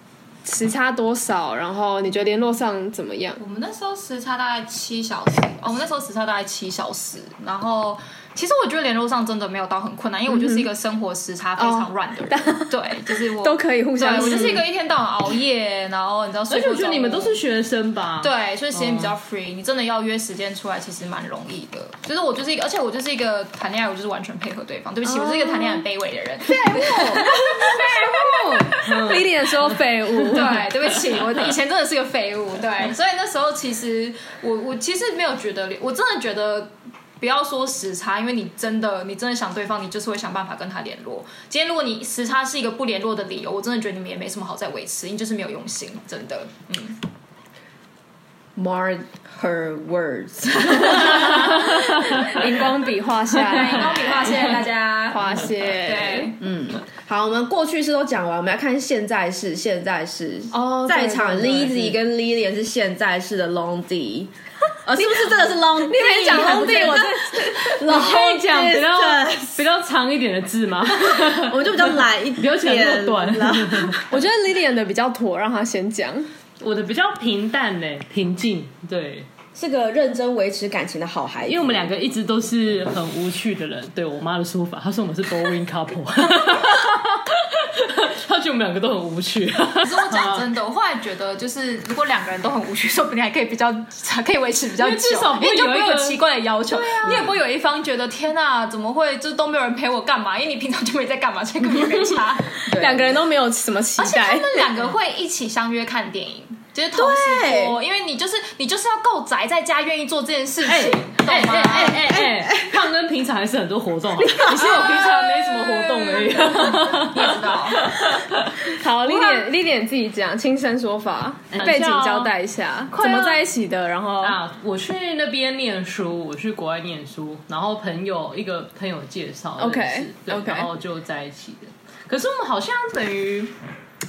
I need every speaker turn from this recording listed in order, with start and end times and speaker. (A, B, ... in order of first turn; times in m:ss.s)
0:00.4-0:03.4 A
0:03.4-0:17.4 B
0:10.3-0:10.7 A
0:11.6-0:12.7 A
0:13.4-0:14.6 A
0:16.5-0:19.1 C
0:18.2-0:28.8 B
0:26.6-0:30.7 A
0:28.8-0:30.8 C
0:30.3-0:47.0 B
0:48.6-0:52.3 D
0:51.1-0:54.2 A
0:53.4-0:56.4 B
0:55.1-0:56.3 A
0:56.4-1:04.3 D
1:00.5-1:02.0 A
1:04.8-1:09.6 D
1:04.9-1:08.2 A
1:07.8-1:14.0 C
1:11.0-1:14.0 D
1:14.1-1:16.3 A
1:16.6-1:19.3 C
1:19.5-1:21.9 D
1:21.5-1:30.5 C
1:29.8-1:42.6 B
1:34.8-1:37.3 C
1:42.6-1:43.1 D
1:42.7-1:44.7 A
1:44.0-1:52.2 B
1:46.9-1:47.8 D
1:50.6-1:59.3 C
1:52.1-1:52.7 D
1:54.3-1:55.2 A
1:56.2-1:56.8 A
1:57.1-1:57.8 B
1:58.6-2:04.4 A
2:01.5-2:02.3 C
2:02.9-2:03.4 C
2:04.2-2:13.5 C
2:09.6-2:10.7 A